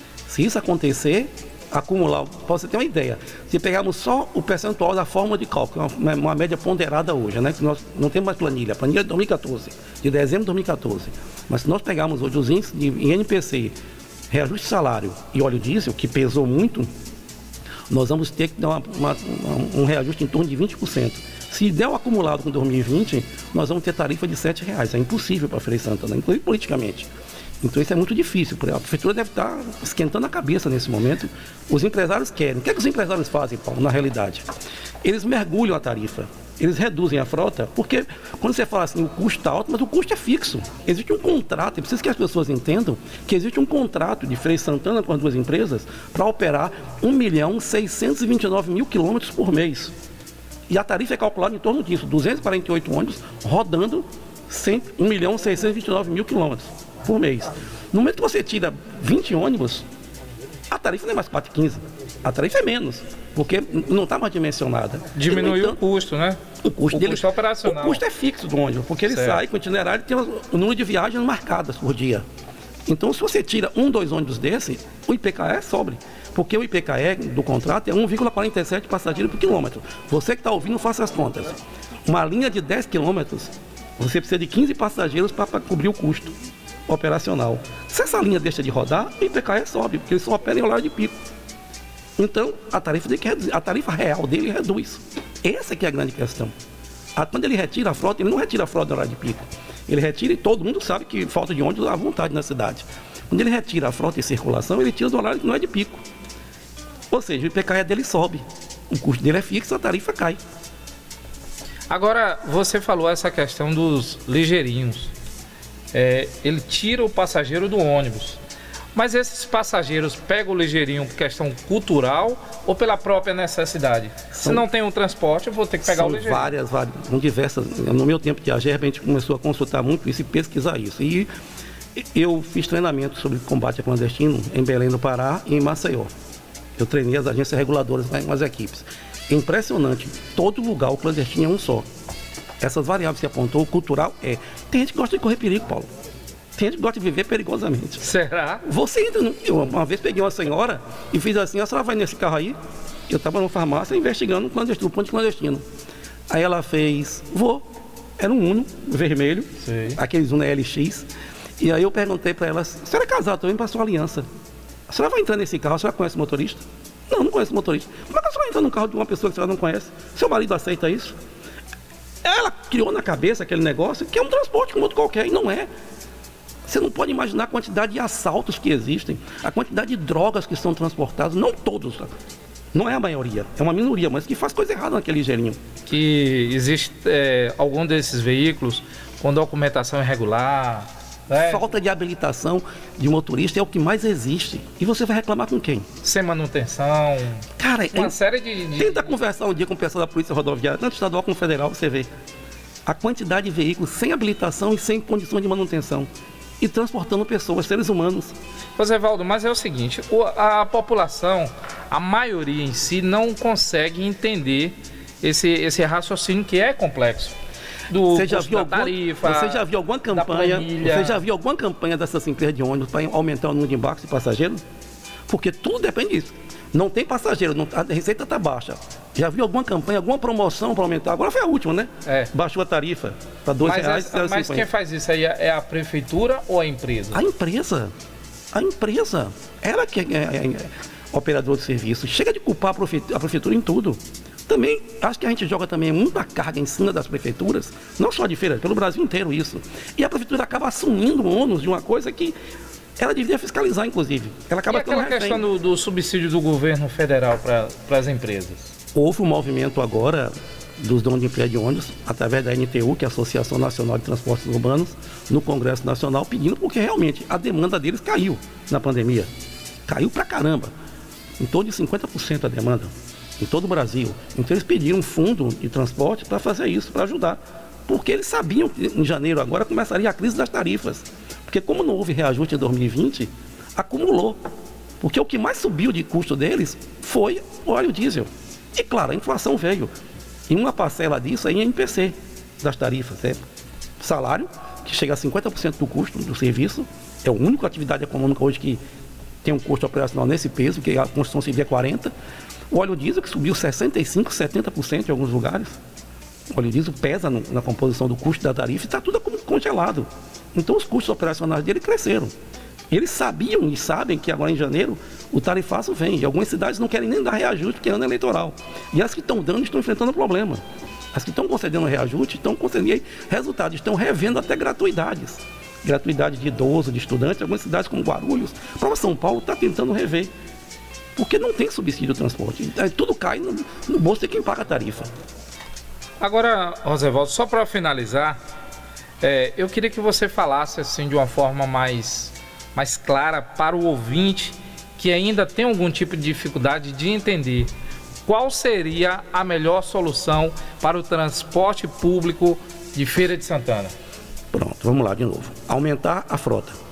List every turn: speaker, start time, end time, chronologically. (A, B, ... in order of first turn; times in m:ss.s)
0:00.3-0:13.7 A
0:14.3-0:16.9 A
0:17.9-0:27.1 A
0:27.6-0:34.5 A
0:35.0-0:49.9 A
0:50.7-0:59.9 A
1:00.7-1:05.8 A
1:05.1-1:06.4 B
1:06.6-1:12.2 A
1:06.9-1:08.0 B
1:09.1-1:09.4 B
1:12.9-1:26.3 A
1:26.9-1:31.1 A
1:32.2-1:36.5 A
1:37.2-1:46.0 A
1:47.1-1:50.4 A
1:51.9-1:55.1 B
1:55.9-1:58.4 B
1:59.0-2:06.5 B
2:04.3-2:04.6 A
2:05.8-2:11.3 A
2:12.0-2:16.1 A
2:16.8-2:21.9 A
2:22.6-2:25.9 A
2:26.6-2:28.1 A
2:28.0-2:28.6 B
2:28.6-2:32.6 A
2:33.1-2:35.6 A
2:36.3-2:37.7 A
2:38.2-2:41.1 A
2:39.6-2:40.0 B
2:41.6-2:44.3 A
2:44.9-2:51.2 A
2:52.2-2:55.7 A
2:56.7-3:02.1 A
3:02.7-3:05.6 A
3:05.9-3:11.6 B
3:11.4-3:15.9 A
3:16.0-3:19.2 B
3:17.6-3:18.1 A
3:18.8-3:22.1 A
3:22.9-3:26.1 A
3:26.6-3:28.4 A
3:28.8-3:37.3 B
3:37.9-3:41.2 B
3:38.1-3:44.6 A
3:45.3-3:54.7 A
3:52.0-3:52.3 B
3:53.6-3:57.2 B
3:57.1-3:57.9 A
3:58.5-4:12.4 A
4:13.0-4:15.4 A
4:14.7-4:18.7 B
4:19.0-4:29.3 A
4:29.9-4:30.7 A
4:31.4-4:44.4 A
4:45.0-4:49.9 A
4:50.5-4:53.4 A
4:54.0-4:58.8 A
4:59.4-5:02.1 A
5:02.7-5:05.8 A
5:06.5-5:12.3 A
5:12.9-5:20.6 A
5:21.1-5:30.3 A
5:31.2-5:35.1 A
5:36.2-5:38.4 B
5:39.2-5:47.7 B
5:48.3-5:53.9 B
5:54.5-5:56.8 A